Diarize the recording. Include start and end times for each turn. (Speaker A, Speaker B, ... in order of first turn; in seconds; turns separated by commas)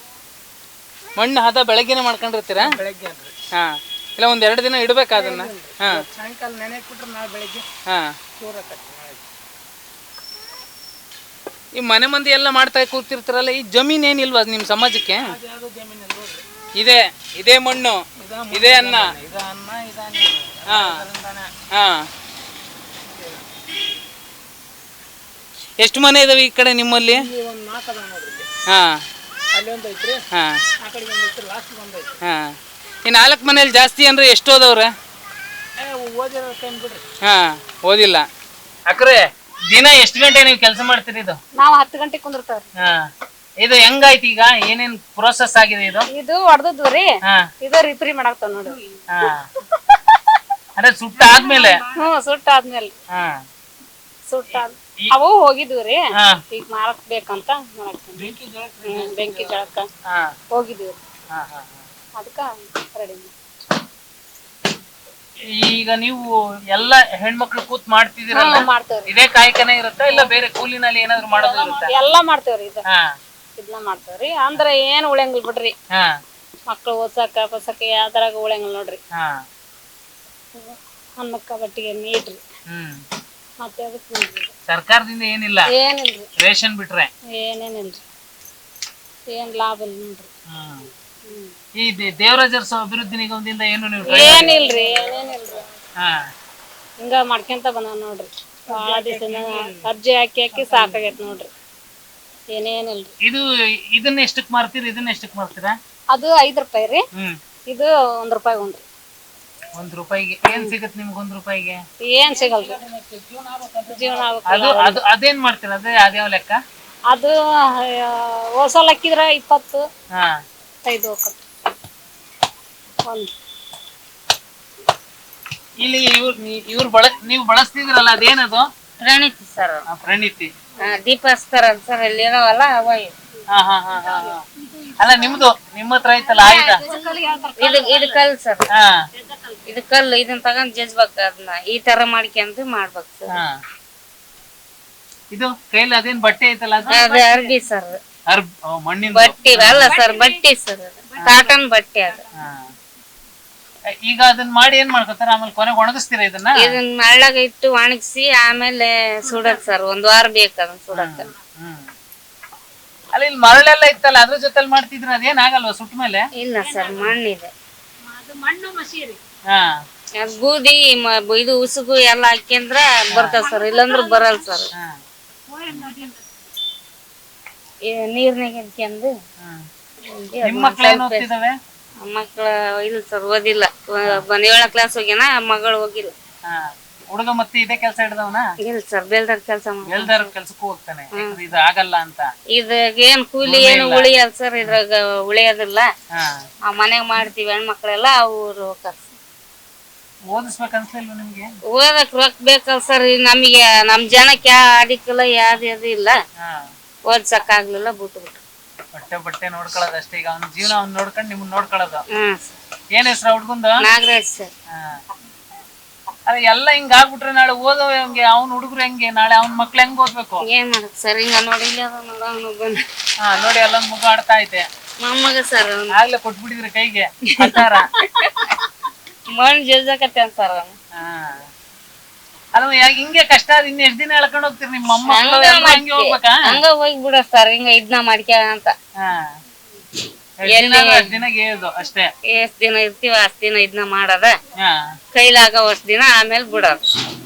Speaker A: 1.1-2.6, Speaker B: 2.6-3.3, Speaker A: 3.5-6.0, Speaker B: 5.1-7.7, Speaker A: 7.9-8.1, Speaker B: 8.4-9.2, Speaker A: 11.8-15.3, Speaker B: 15.1-16.4, Speaker A: 16.8-19.1, Speaker B: 18.2-21.5, Speaker A: 20.7-21.0, Speaker A: 21.7-22.1, Speaker B: 23.0-23.4, Speaker A: 25.8-27.2, Speaker B: 27.1-28.5, Speaker A: 28.7-29.0, Speaker B: 29.5-30.2, Speaker A: 30.3-30.6, Speaker B: 30.8-32.1, Speaker A: 32.2-32.5, Speaker A: 33.0-34.9, Speaker B: 35.8-37.0, Speaker A: 37.2-38.3, Speaker A: 38.9-41.4, Speaker C: 41.6-42.6, Speaker A: 43.6-46.0, Speaker C: 46.1-47.1, Speaker C: 47.6-48.8, Speaker A: 49.1-49.5, Speaker A: 50.8-51.8, Speaker C: 51.3-52.9, Speaker C: 54.3-58.3, Speaker B: 58.1-59.7, Speaker C: 58.8-59.9, Speaker C: 60.5-61.0, Speaker A: 61.3-61.8, Speaker C: 62.2-63.3, Speaker A: 65.5-71.9, Speaker C: 68.3-69.1, Speaker C: 71.2-72.8, Speaker C: 73.6-75.7, Speaker C: 76.7-79.0, Speaker C: 80.6-82.4, Speaker A: 82.7-83.0, Speaker C: 83.6-84.5, Speaker A: 84.7-85.7, Speaker C: 85.7-86.3, Speaker A: 86.4-87.1, Speaker C: 87.4-88.0, Speaker C: 89.3-90.3, Speaker A: 90.5-90.9, Speaker C: 91.2-91.5, Speaker A: 91.8-94.6, Speaker C: 94.0-95.6, Speaker B: 94.4-95.3, Speaker C: 97.0-101.5, Speaker B: 98.7-99.8, Speaker B: 100.5-101.0, Speaker C: 102.5-103.1, Speaker A: 103.2-105.8, Speaker C: 106.1-107.0, Speaker C: 107.7-108.8, Speaker A: 109.8-111.8, Speaker C: 112.0-112.8, Speaker B: 112.3-114.4, Speaker C: 113.9-115.0, Speaker A: 114.5-116.6, Speaker C: 117.1-117.3, Speaker C: 117.9-119.8, Speaker C: 120.8-121.4, Speaker A: 125.8-128.7, Speaker D: 129.0-129.8, Speaker A: 129.9-130.5, Speaker D: 130.8-133.1, Speaker A: 133.5-134.4, Speaker C: 134.0-135.3, Speaker A: 135.0-136.8, Speaker C: 136.4-138.2, Speaker D: 137.6-138.7, Speaker C: 139.1-139.7, Speaker D: 139.7-143.3, Speaker A: 145.3-147.2, Speaker D: 146.9-148.0, Speaker C: 146.9-147.5, Speaker A: 148.3-149.9, Speaker D: 149.1-152.2, Speaker C: 149.8-150.4, Speaker C: 151.2-151.5, Speaker A: 152.3-152.7, Speaker A: 154.0-156.8, Speaker D: 156.6-161.3, Speaker C: 159.3-159.6, Speaker A: 160.9-161.9, Speaker A: 163.1-166.2, Speaker D: 166.4-167.5, Speaker C: 166.6-167.2, Speaker C: 168.1-169.2, Speaker D: 170.2-174.7, Speaker A: 173.1-173.4, Speaker C: 173.3-174.5, Speaker C: 175.5-176.2, Speaker D: 177.9-179.1, Speaker D: 180.1-181.2, Speaker A: 180.4-181.5, Speaker D: 182.0-186.1, Speaker A: 186.4-188.5, Speaker D: 188.6-190.3, Speaker A: 189.8-192.3, Speaker D: 192.5-195.9, Speaker A: 193.4-194.1, Speaker A: 196.1-196.4, Speaker D: 196.7-199.0, Speaker A: 200.3-201.5, Speaker D: 201.7-206.2, Speaker A: 206.4-206.7, Speaker D: 207.1-208.4, Speaker A: 208.9-212.0, Speaker D: 212.1-212.4, Speaker A: 212.9-213.9, Speaker D: 213.8-214.5, Speaker A: 216.2-220.4, Speaker D: 220.4-222.8, Speaker A: 223.2-224.7, Speaker D: 225.0-225.9, Speaker A: 225.9-227.9, Speaker D: 227.3-228.3, Speaker D: 229.3-230.7, Speaker A: 230.9-231.4, Speaker A: 232.5-236.6, Speaker D: 235.1-238.7, Speaker A: 239.0-239.3, Speaker A: 240.4-242.1, Speaker D: 240.5-241.2, Speaker D: 242.3-244.4, Speaker D: 245.1-246.8